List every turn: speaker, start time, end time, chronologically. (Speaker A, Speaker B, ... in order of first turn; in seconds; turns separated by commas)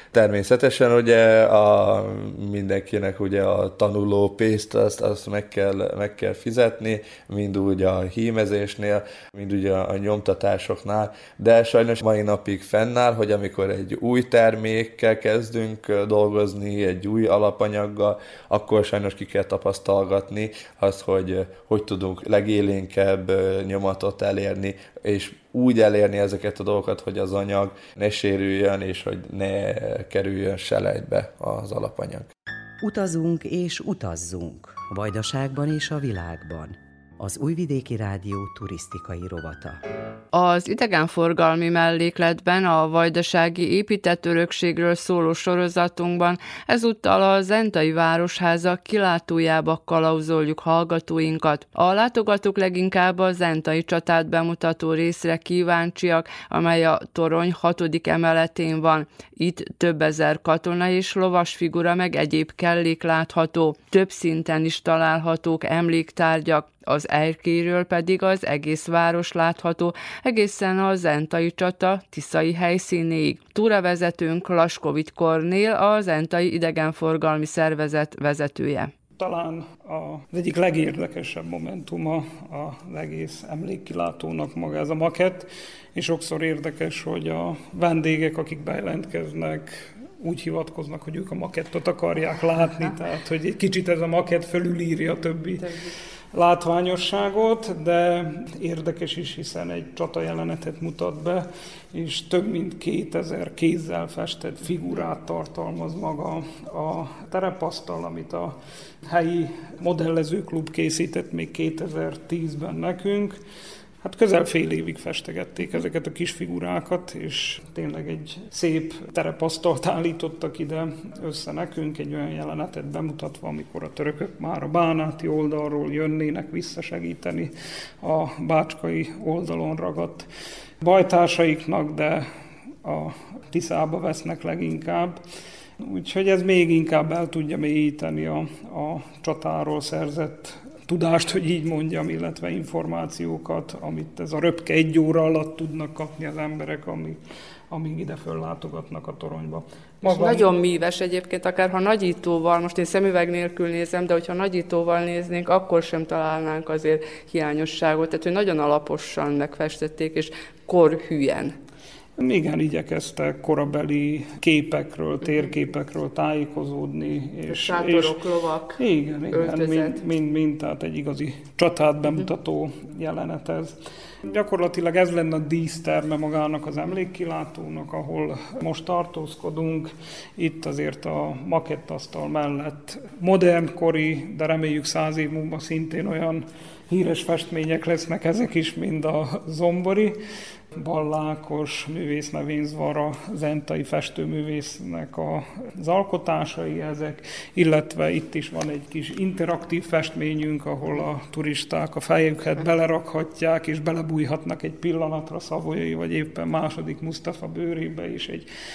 Speaker A: 0.1-32.3, Speaker B: 32.8-39.8, Speaker C: 40.3-78.9, Speaker D: 79.2-95.8, Speaker C: 95.6-95.9, Speaker D: 96.3-108.5, Speaker D: 109.1-113.4, Speaker D: 114.0-130.3, Speaker D: 130.8-132.3, Speaker D: 132.8-135.2, Speaker D: 135.8-147.2, Speaker D: 147.7-150.5, Speaker C: 150.0-161.6, Speaker D: 162.2-168.2, Speaker C: 167.5-168.8, Speaker D: 168.8-190.2, Speaker C: 169.3-170.0, Speaker D: 190.8-208.5